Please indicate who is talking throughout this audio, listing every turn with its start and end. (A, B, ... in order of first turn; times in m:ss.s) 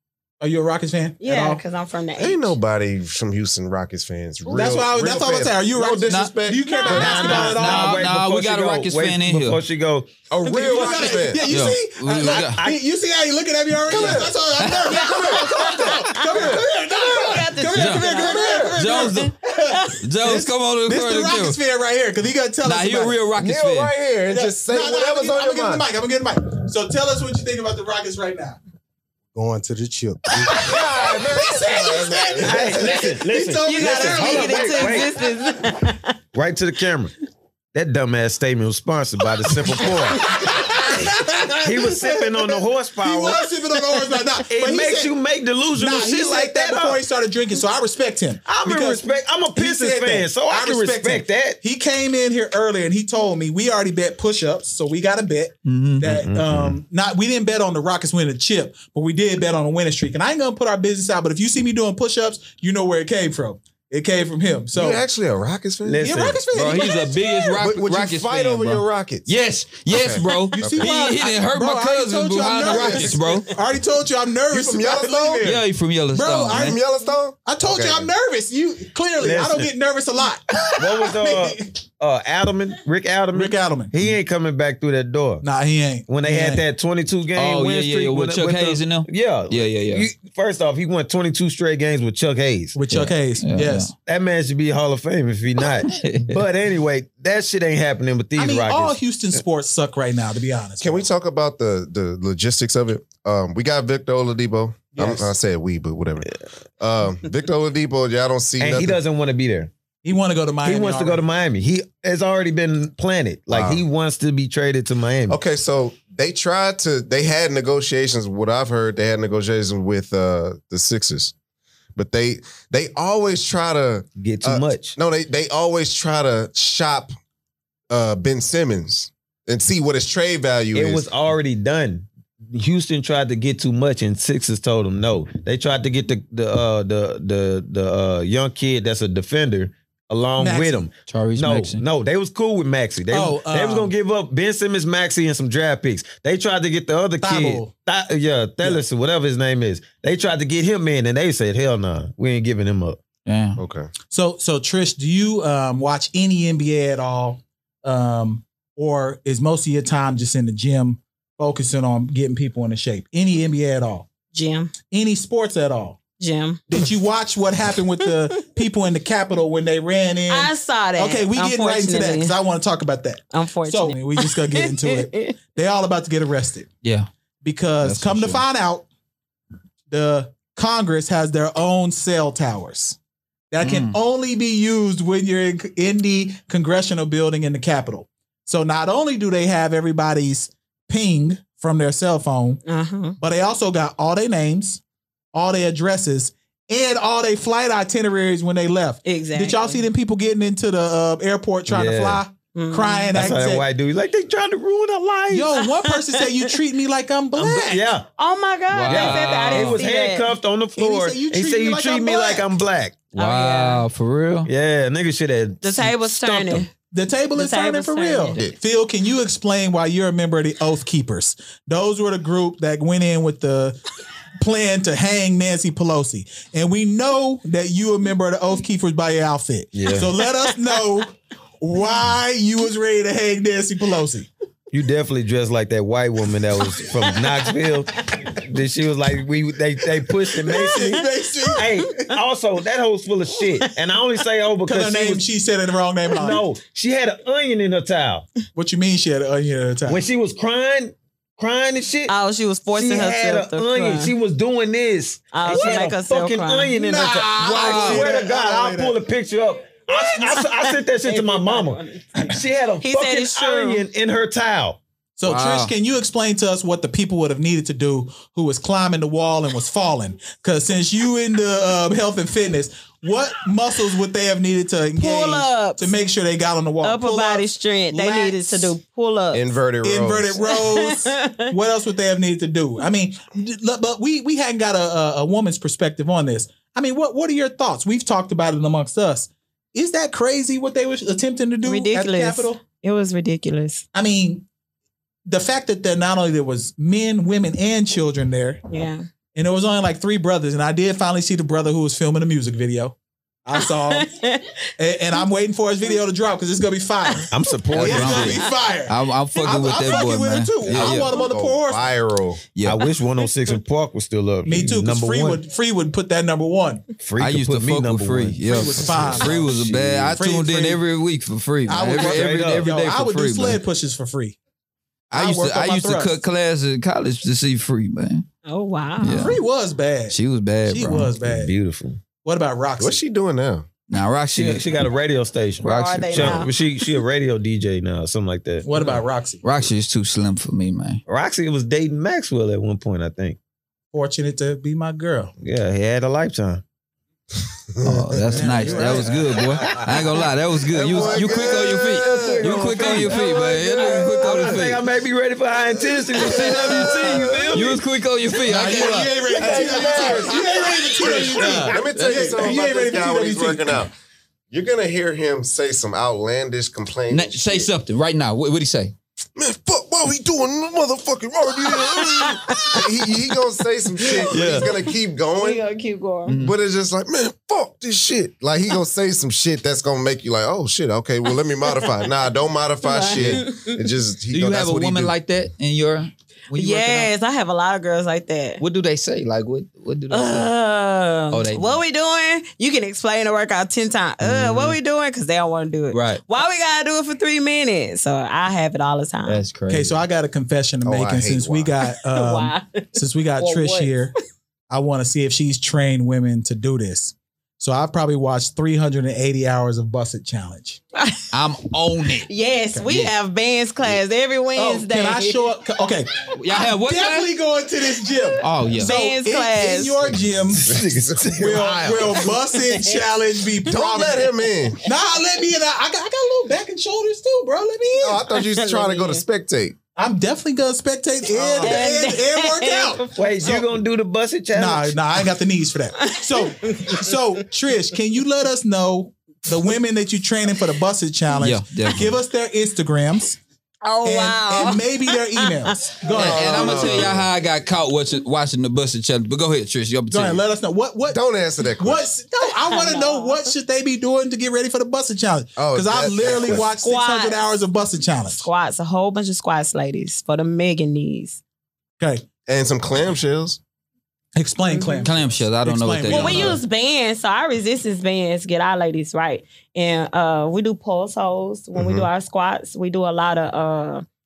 0:00.4-0:01.6 A
0:01.2-0:02.5 B
0:02.2-0:07.4 C
0:04.5-0:08.1 A
0:06.1-0:06.4 D
0:06.6-0:07.6 B
0:06.9-0:11.0 E
0:07.4-0:09.6 D
0:10.3-0:11.4 C
0:10.4-0:23.2 A
0:11.5-0:12.6 D
0:12.2-0:12.8 E
0:13.9-0:14.3 C
0:13.9-0:15.0 D
0:14.9-0:20.0 B
0:14.9-0:16.6 C
0:17.7-0:19.4 D
0:20.0-0:21.6 D
0:22.6-0:23.9 D
0:23.4-0:25.9 C
0:24.3-0:28.6 A
0:29.4-0:33.0 C
0:30.5-0:35.1 E
0:30.6-0:35.2 A
0:33.6-0:36.2 B
0:36.3-0:37.1 E
0:37.7-0:40.3 E
0:39.8-0:45.1 A
0:41.6-0:43.5 E
0:44.5-0:47.0 E
0:45.7-1:05.0 A
0:48.4-0:51.6 E
0:55.6-0:56.0 D
0:56.0-0:56.8 E
1:04.7-1:06.3 C
1:05.8-1:06.4 E
1:06.0-1:07.5 A
1:06.5-1:13.5 D
1:07.6-1:09.3 C
1:09.9-1:10.9 C
1:10.6-1:15.6 A
1:12.6-1:13.3 C
1:14.5-1:15.6 C
1:15.4-1:16.8 D
1:16.1-1:16.8 A
1:16.5-1:18.1 C
1:17.4-1:21.8 A
1:19.2-1:19.7 E
1:20.8-1:25.4 E
1:23.3-1:23.9 A
1:25.4-1:26.6 A
1:26.1-1:32.8 E
1:27.4-1:30.1 D
1:32.7-1:33.9 A
1:32.9-1:33.9 D
1:34.0-1:39.0 E
1:35.9-1:36.4 D
1:38.4-1:41.0 A
1:40.8-1:49.0 C
1:44.9-1:45.3 A
1:48.6-1:49.7 E
1:50.0-1:51.2 A
1:50.6-1:55.4 E
1:53.5-1:53.8 C
1:55.3-2:01.3 C
2:02.0-2:07.1 C
2:04.2-2:05.0 E
2:07.9-2:11.1 C
2:10.7-2:33.0 E
2:20.4-2:20.9 A
2:21.1-2:21.8 D
2:23.1-2:23.9 A
2:27.2-2:27.7 A
2:33.2-2:33.6 D
2:33.6-2:33.9 C
2:34.1-2:44.1 A
2:44.3-2:44.7 B
2:44.9-2:46.0 A
2:46.2-2:46.6 B
2:46.7-2:56.7 A
2:50.3-2:52.3 B
2:53.3-2:55.4 B
2:56.8-2:57.1 D
2:57.4-2:58.8 A
2:57.8-2:58.4 D
2:59.9-3:03.0 A
3:03.5-3:12.6 A
3:03.6-3:04.0 D
3:12.6-3:13.2 B
3:13.2-3:14.8 A
3:15.3-3:23.7 A
3:19.0-3:19.8 B
3:21.7-3:22.2 E
3:22.5-3:23.1 B
3:23.1-3:25.5 E
3:25.3-3:27.9 A
3:25.6-3:26.5 B
3:27.3-3:28.1 E
3:28.2-3:30.3 B
3:28.7-3:29.8 D
3:28.9-3:33.1 E
3:30.8-3:32.5 A
3:33.2-3:33.8 B
3:33.2-3:34.5 D
3:34.4-3:36.6 E
3:35.6-3:36.7 B
3:36.9-3:43.8 A
3:37.4-3:38.4 B
3:44.4-3:54.3 A
3:49.7-3:50.1 E
3:54.7-4:05.3 E
4:00.4-4:02.1 A
4:00.5-4:00.8 B
4:01.4-4:02.1 B
4:04.6-4:06.5 A
4:06.1-4:08.3 E
4:08.6-4:10.0 A
4:09.9-4:12.1 E
4:12.1-4:14.1 B
4:12.7-4:24.8 E
4:15.3-4:16.7 B
4:15.5-4:15.8 A
4:16.7-4:19.0 A
4:17.4-4:18.1 D
4:21.0-4:22.2 B
4:22.8-4:23.8 B
4:25.2-4:38.7 A
4:25.3-4:25.7 D
4:35.0-4:35.9 B
4:36.8-4:39.4 B
4:39.3-4:40.4 C
4:39.8-4:52.6 A
4:40.5-4:41.5 B
4:51.6-4:53.8 B
4:53.9-4:54.4 A
4:55.3-4:58.6 A
4:58.7-4:59.0 B
4:59.3-5:04.1 A
5:03.6-5:04.6 B
5:04.8-5:11.9 A
5:07.3-5:08.5 E
5:07.7-5:11.2 D
5:10.6-5:12.4 C
5:12.6-5:12.9 D
5:12.6-5:15.4 E
5:14.4-5:16.9 A
5:17.0-5:20.2 E
5:17.2-5:23.6 D
5:18.5-5:19.6 A
5:20.2-5:20.8 A
5:21.7-5:24.4 A
5:22.0-5:22.6 E
5:25.1-5:26.1 A
5:25.1-5:28.3 D
5:28.4-5:29.3 B
5:29.0-5:29.4 D
5:29.2-5:31.5 A
5:30.1-5:31.1 D
5:31.2-5:32.0 E
5:32.2-5:33.0 A
5:32.8-5:33.7 C
5:33.9-5:34.7 D
5:34.3-5:39.0 E
5:35.6-5:36.6 B
5:35.6-5:36.5 D
5:38.6-5:39.4 A
5:39.4-5:41.0 D
5:41.1-5:43.4 E
5:43.9-5:45.3 A
5:45.4-5:46.6 E
5:47.8-5:48.7 C
5:47.8-5:54.8 D
5:48.2-5:49.8 A
5:48.7-5:49.9 E
5:50.7-5:57.8 E
5:50.7-5:52.4 C
5:53.8-5:54.6 C
5:56.1-5:59.4 D
5:56.2-5:57.2 C
5:58.4-6:03.8 A
5:59.3-6:01.8 E
5:59.4-6:03.9 C
6:01.0-6:02.3 D
6:04.5-6:07.7 C
6:07.1-6:08.9 D
6:09.4-6:15.6 C
6:11.7-6:12.8 B
6:14.0-6:16.4 B
6:14.3-6:14.7 E
6:16.3-6:16.6 D
6:16.4-6:25.1 C
6:22.8-6:23.8 B
6:24.3-6:27.1 D
6:26.5-6:28.6 B
6:28.6-6:30.5 D
6:30.1-6:39.4 B
6:31.3-6:31.8 D
6:34.2-6:34.8 D
6:35.9-6:36.2 D
6:39.3-6:40.0 D
6:39.7-6:44.1 A
6:40.8-6:41.7 C
6:42.1-6:44.0 B
6:44.7-6:50.8 A
6:51.0-6:51.3 B
6:51.3-6:53.1 D
6:52.3-6:55.4 B
6:54.6-7:00.7 A
6:56.3-6:57.3 D
6:58.2-7:00.0 B
6:58.4-6:58.9 D
7:00.1-7:02.3 C
7:00.6-7:01.6 E
7:01.4-7:04.3 A
7:02.3-7:03.0 B
7:03.6-7:04.8 C
7:04.8-7:08.3 A
7:08.0-7:09.8 C
7:08.4-7:09.2 B
7:10.0-7:13.7 A
7:11.3-7:11.8 C
7:11.6-7:13.2 B
7:13.2-7:15.0 E
7:14.5-7:23.4 A
7:16.0-7:17.2 B
7:21.4-7:22.2 D
7:23.8-7:26.0 B
7:24.0-7:27.1 A
7:26.1-7:27.3 C
7:26.2-7:30.4 D
7:30.1-7:31.2 A
7:31.1-7:32.0 C
7:31.8-7:38.5 A
7:32.6-7:33.5 B
7:35.6-7:36.7 C
7:36.8-7:37.4 B
7:38.3-7:41.4 B
7:42.0-7:42.2 A
7:42.5-7:43.6 C
7:44.4-7:46.6 A
7:44.6-7:45.1 B
7:45.0-7:46.6 D
7:46.1-7:54.0 B
7:51.7-7:52.1 C